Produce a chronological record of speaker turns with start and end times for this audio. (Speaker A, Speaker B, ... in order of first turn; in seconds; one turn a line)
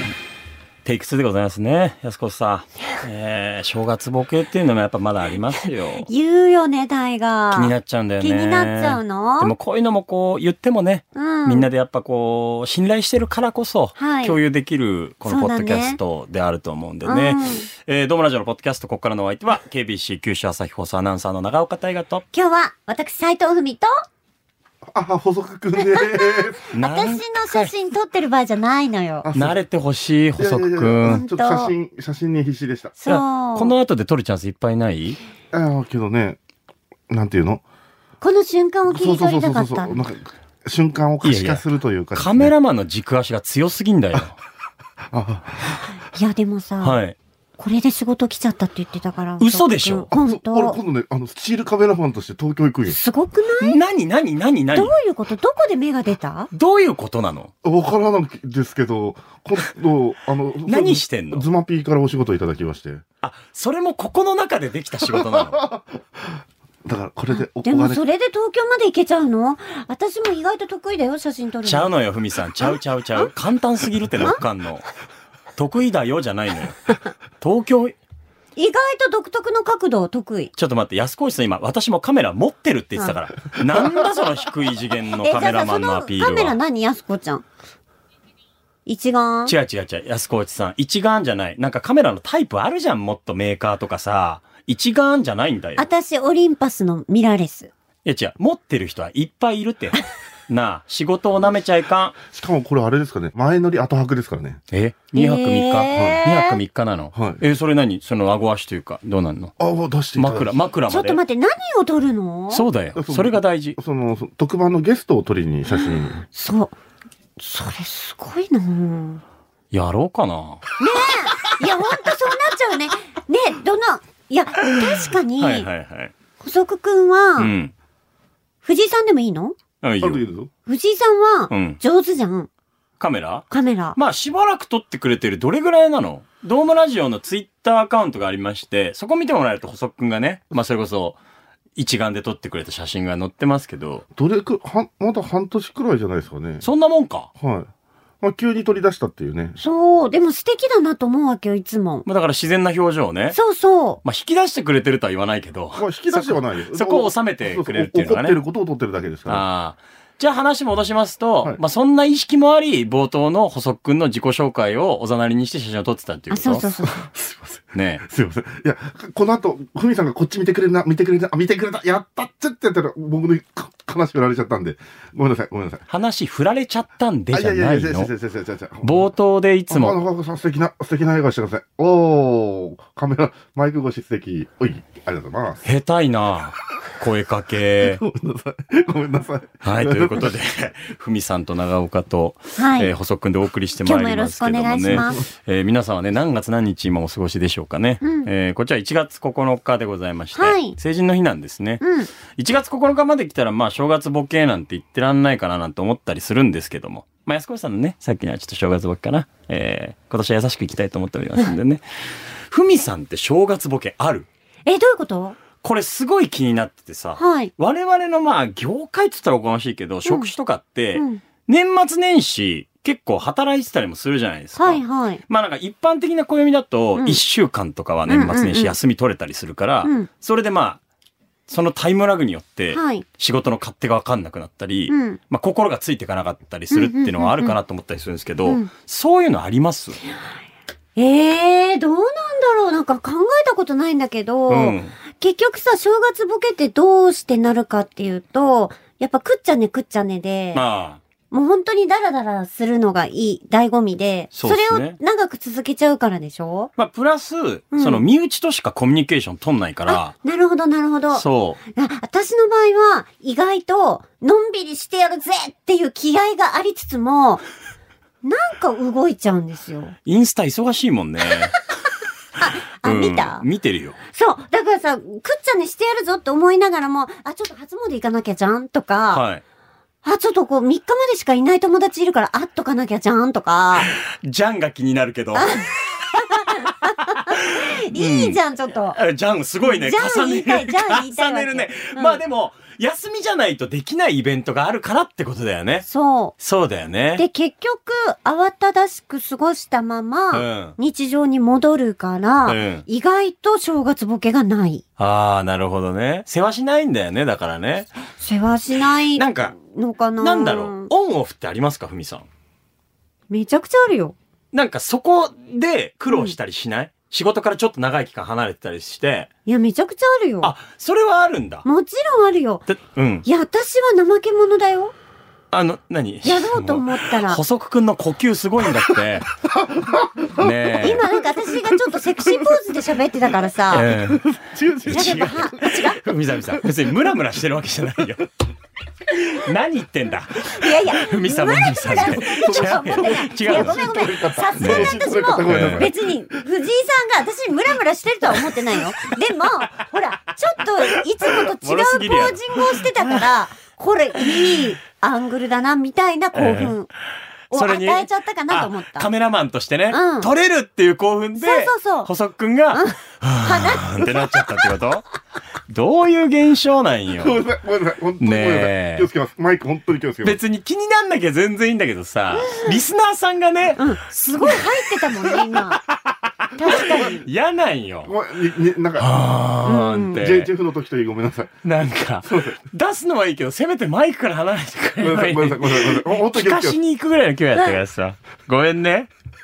Speaker A: 0.8-6.1
Speaker B: 6.0-9.5
Speaker A: 7.5-22.2
Speaker B: 11.1-11.7
Speaker B: 14.0-14.4
Speaker B: 15.2-16.0
Speaker B: 17.0-17.7
Speaker B: 22.3-24.0
Speaker C: 24.9-26.6
Speaker B: 25.8-29.3
Speaker A: 26.7-27.7
Speaker C: 29.2-29.6
Speaker A: 29.3-31.2
Speaker C: 30.4-32.9
Speaker B: 31.0-31.7
Speaker B: 33.0-33.7
Speaker A: 33.1-35.2
Speaker C: 35.5-36.4
Speaker C: 37.1-37.6
Speaker B: 38.2-40.0
Speaker C: 38.9-42.5
Speaker A: 41.2-41.6
Speaker A: 42.1-44.4
Speaker C: 45.1-45.8
Speaker B: 46.1-47.0
Speaker A: 46.8-47.2
Speaker B: 47.6-50.8
Speaker A: 49.4-50.1
Speaker C: 50.1-53.0
Speaker B: 52.9-53.8
Speaker A: 53.6-54.9
Speaker B: 54.7-56.5
Speaker A: 56.5-57.5
Speaker C: 57.6-63.0
Speaker A: 60.7-61.5
Speaker A: 63.2-65.6
Speaker C: 65.1-68.0
Speaker B: 67.3-71.9
Speaker A: 71.6-74.9
Speaker A: 75.6-78.0
Speaker B: 78.6-80.5
Speaker A: 80.6-86.6
Speaker B: 85.2-87.4
Speaker B: 88.9-89.5
Speaker A: 89.5-95.8
Speaker B: 95.8-97.7
Speaker A: 98.0-102.2
Speaker C: 102.3-104.6
Speaker A: 104.7-109.5
Speaker B: 105.1-106.6
Speaker C: 105.9-106.2
Speaker C: 107.1-107.4
Speaker C: 109.6-110.6
Speaker A: 110.1-111.2
Speaker B: 110.9-112.6
Speaker A: 112.5-113.8
Speaker C: 113.0-116.2
Speaker B: 115.7-116.8
Speaker B: 117.4-119.2
Speaker A: 119.7-120.6
Speaker B: 120.8-125.7
Speaker A: 125.4-126.1
Speaker B: 126.4-127.5
Speaker A: 127.4-127.7
Speaker B: 128.6-129.6
Speaker A: 129.8-130.2
Speaker C: 130.0-130.5
Speaker B: 130.7-132.5
Speaker A: 131.5-131.8
Speaker A: 133.0-141.2
Speaker B: 133.5-134.0
Speaker A: 141.8-144.0
Speaker C: 144.2-146.6
Speaker A: 146.6-147.3
Speaker C: 147.4-147.7
Speaker C: 148.2-149.6
Speaker B: 149.6-152.0
Speaker A: 152.1-153.4
Speaker B: 153.3-154.0
Speaker A: 154.0-158.4
Speaker C: 155.7-159.4
Speaker A: 159.3-166.6
Speaker B: 166.3-167.0
Speaker C: 166.9-175.8
Speaker A: 167.7-168.0
Speaker A: 175.9-178.1
Speaker C: 177.3-179.1
Speaker A: 178.8-180.0
Speaker C: 179.7-185.6
Speaker A: 185.6-188.0
Speaker C: 187.8-190.4
Speaker A: 189.6-201.8
Speaker B: 192.6-192.9
Speaker B: 193.8-195.2
Speaker B: 198.0-198.3
Speaker B: 200.3-200.8
Speaker B: 201.8-202.1
Speaker A: 202.3-214.3
Speaker B: 214.7-215.4
Speaker A: 215.6-230.8
Speaker B: 217.2-217.5
Speaker B: 220.0-220.3
Speaker B: 220.9-221.2
Speaker B: 224.6-225.2
Speaker B: 228.1-228.7
Speaker A: 231.5-240.0
Speaker B: 232.7-233.0
Speaker B: 234.9-235.2
Speaker B: 236.7-237.5
Speaker B: 240.9-250.6
Speaker A: 244.5-244.9
Speaker A: 250.5-251.0
Speaker B: 251.3-256.7
Speaker A: 254.3-255.0
Speaker A: 256.8-260.1
Speaker B: 257.7-258.0
Speaker B: 259.9-267.4
Speaker A: 261.1-261.6
Speaker B: 268.2-269.9
Speaker A: 270.1-271.6
Speaker B: 272.4-273.4
Speaker A: 272.8-274.0
Speaker B: 274.1-279.2
Speaker A: 279.1-279.4
Speaker B: 280.0-283.9
Speaker A: 283.9-286.1
Speaker B: 285.3-289.0
Speaker A: 287.3-288.4
Speaker A: 288.9-295.9
Speaker B: 289.6-292.2
Speaker B: 295.9-296.3
Speaker A: 296.4-297.2
Speaker B: 297.1-304.8
Speaker A: 300.3-300.8
Speaker A: 302.5-302.8
Speaker A: 305.0-307.9
Speaker B: 308.1-310.9
Speaker A: 309.1-309.6
Speaker A: 310.2-312.2
Speaker B: 313.3-314.1
Speaker A: 314.5-319.3
Speaker B: 316.1-316.4
Speaker B: 319.4-320.5
Speaker A: 320.4-321.6
Speaker B: 321.6-322.6
Speaker A: 322.7-323.2
Speaker B: 323.2-324.9
Speaker A: 325.5-329.3
Speaker B: 326.2-327.4
Speaker C: 329.5-330.7
Speaker A: 330.4-331.1
Speaker B: 330.8-333.9
Speaker A: 333.7-338.3
Speaker C: 333.9-335.8
Speaker B: 334.9-336.0
Speaker A: 339.1-343.9
Speaker B: 340.5-356.9
Speaker C: 342.3-346.0
Speaker A: 344.6-345.9
Speaker A: 351.5-352.4
Speaker A: 356.3-356.8
Speaker B: 357.5-359.1
Speaker A: 357.5-365.1
Speaker B: 359.9-360.3
Speaker B: 361.4-362.1
Speaker B: 362.7-364.1
Speaker A: 365.7-367.4
Speaker C: 367.1-370.4
Speaker A: 368.2-369.1
Speaker A: 370.2-373.8
Speaker B: 372.4-372.8
Speaker B: 373.8-375.8
Speaker A: 374.4-374.6
Speaker A: 376.4-378.1
Speaker B: 376.6-377.2
Speaker C: 378.1-379.1
Speaker A: 379.0-380.5
Speaker B: 379.6-380.2
Speaker C: 380.1-381.6
Speaker A: 381.6-389.1
Speaker C: 382.3-382.6
Speaker C: 385.0-386.8